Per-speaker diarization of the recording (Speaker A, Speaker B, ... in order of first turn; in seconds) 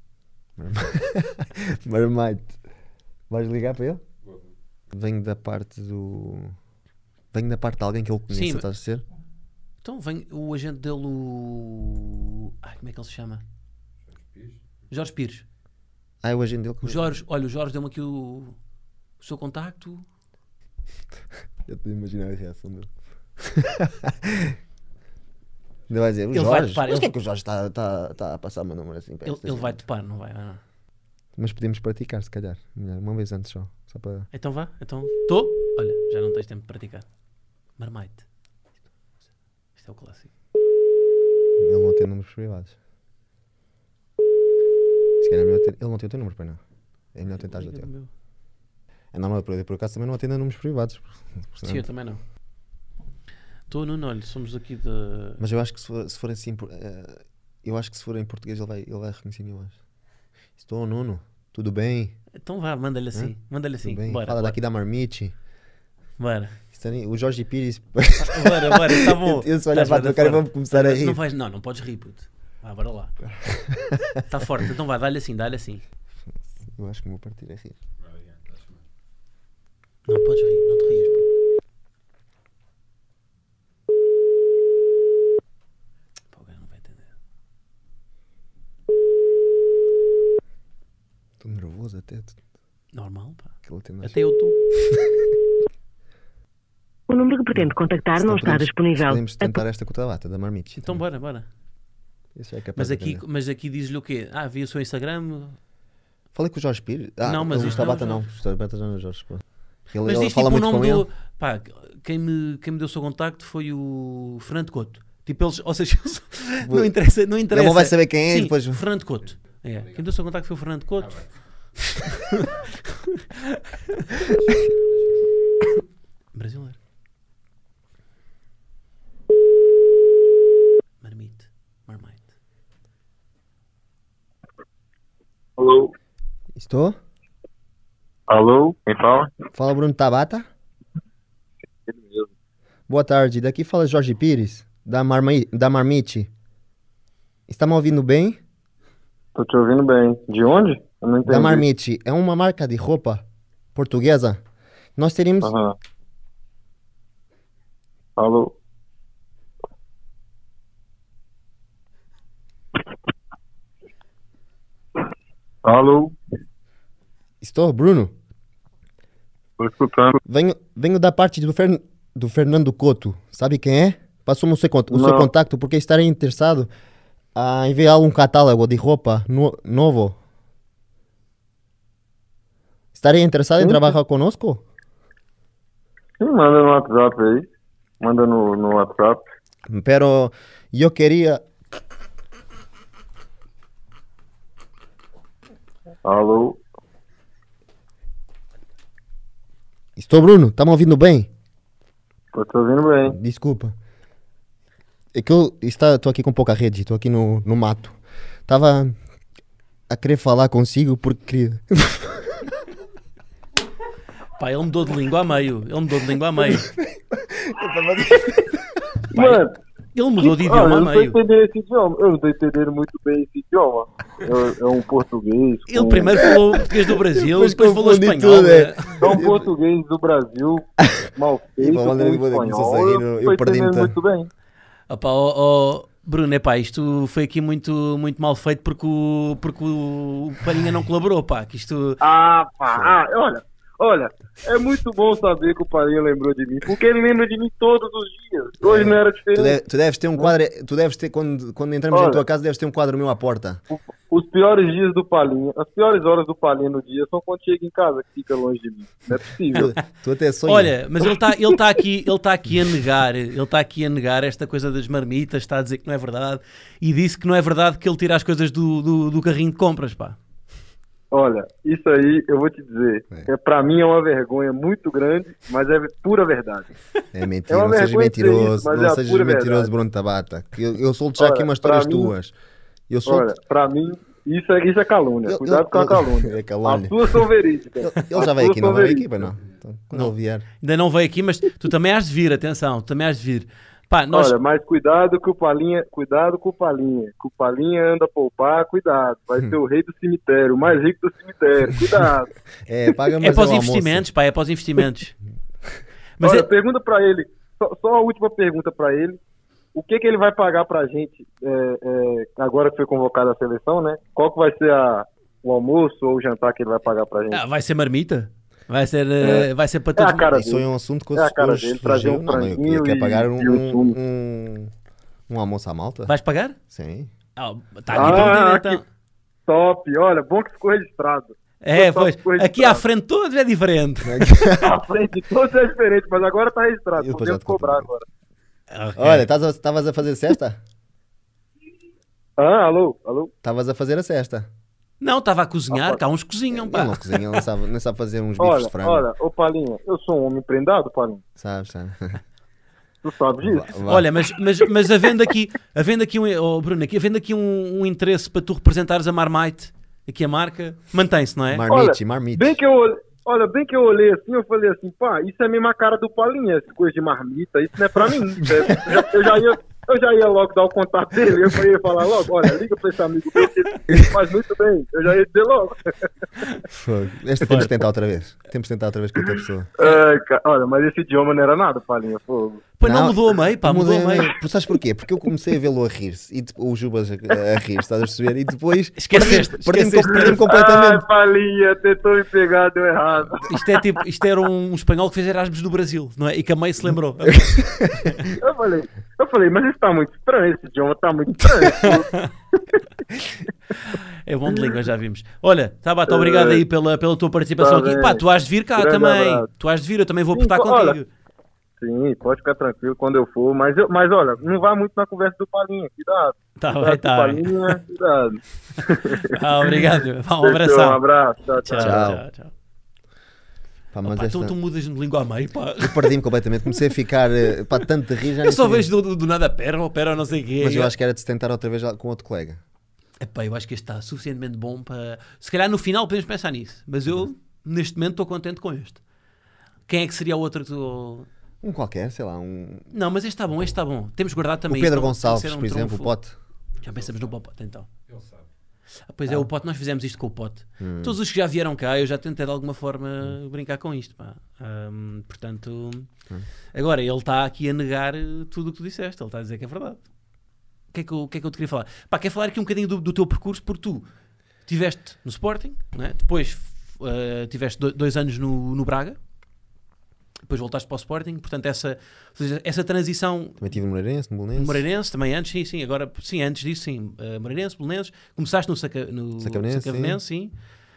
Speaker A: 0.6-2.6, 3.3-4.0, 4.9-6.5, 7.3-9.0, 16.2-17.1, 21.6-24.6, 25.9-29.8, 31.4-34.3, 41.6-42.8, 45.2-46.6, 47.1-47.9, 49.1-51.8, 55.4-59.8, 60.6-62.2, 63.1-65.3, 66.7-71.2, 73.2-74.2, 76.3-77.7, 91.4-92.4, 93.6-94.2, 97.5-101.0, 102.3-103.2, 106.3-111.1, 116.6-116.9, 117.5-118.8, 136.5-137.0, 139.5-140.5, 142.9-146.3, 147.5-148.4, 151.2-154.4, 155.0-155.5, 167.4-168.1, 170.3-176.7, 177.3-180.2, 182.9-184.6, 189.7-191.4, 199.9-201.3, 203.1-203.7, 205.1-207.9, 208.5-208.9, 209.9-212.3, 216.4-218.6, 226.9-229.5, 231.6-233.9, 242.7-243.0, 248.6-253.6, 259.5-260.8, 277.1-282.3, 282.9-283.3, 285.2-287.3, 287.8-290.4, 302.7-304.1, 320.3-324.7, 325.3-326.1, 326.7-327.1, 327.9-328.3, 334.0-334.8, 337.0-337.9, 339.0-340.6, 343.4-344.5, 346.5-349.0, 351.4-352.2, 353.4-354.1, 361.5-362.5, 376.7-379.7, 382.8-391.1, 397.2-398.3, 421.8-422.2, 423.9-424.6, 425.8-428.9, 430.6-432.6, 441.6-442.9, 444.7-446.4, 450.8-451.2, 473.6-474.8, 479.4-480.2
Speaker B: 4.2-4.5, 14.1-14.6, 78.0-78.8, 119.5-120.2, 121.0-121.9, 124.2-125.3, 446.8-447.4, 448.1-448.5
Speaker C: 8.3-8.7, 9.8-13.4, 14.9-15.4, 16.8-18.6, 19.2-20.0, 26.3-27.1, 29.2-30.6, 34.3-37.0, 37.8-38.2, 39.8-40.3, 47.3-48.1, 51.6-52.2, 53.7-55.4, 62.4-64.6, 66.2-66.5, 68.2-73.1, 74.3-75.8, 80.1-81.2, 86.3-87.1, 92.9-94.6, 100.8-101.5, 102.8-105.6, 107.2-108.2, 110.0-121.2, 126.3-126.8, 131.0-132.2, 214.4-216.7, 219.1-219.4, 219.9-221.2, 225.7-229.1, 234.9-242.0, 260.4-270.2, 289.9-294.3, 303.2-305.1, 306.2-306.5, 317.3-320.3, 326.1-326.6, 327.4-328.8, 331.6-334.3, 338.7-339.3, 345.0-347.2, 353.9-361.7, 377.4-377.7, 382.8-384.4, 389.0-390.4, 393.5-398.2, 403.9-411.1, 416.6-417.8, 419.1-421.0, 421.6-422.5, 424.0-426.2, 428.4-430.9, 433.2-439.0, 439.9-441.3, 442.9-446.1, 446.8-447.9, 449.1-456.1, 456.7-460.0, 460.9-464.1, 464.6-469.2, 470.5-473.6, 474.5-480.5
Speaker D: 97.1-99.6
Speaker E: 135.6-135.9, 138.3-139.3, 141.8-142.3, 149.3-151.6, 155.4-155.8, 158.2-158.5, 165.6-166.1, 169.6-170.2, 174.9-175.3, 183.6-183.9, 186.2-187.5, 188.0-189.2, 196.0-196.6, 202.3-203.2, 219.1-219.6, 220.2-226.3, 229.0-234.3, 242.0-249.6, 251.9-252.2, 253.7-259.7, 271.1-276.7, 277.5-279.7, 281.2-282.1, 283.0-289.1, 294.1-302.3, 306.2-309.2, 309.7-317.4, 319.2-324.0, 327.9-328.8, 329.5-332.8, 334.6-338.0, 342.4-343.3, 345.7-346.0, 348.4-351.2, 353.0-353.8, 361.7-376.1, 379.8-382.6, 390.4-393.7, 398.3-402.2, 406.1-406.6, 407.6-408.2, 408.8-409.5, 410.3-411.0, 411.8-419.7, 420.4-422.0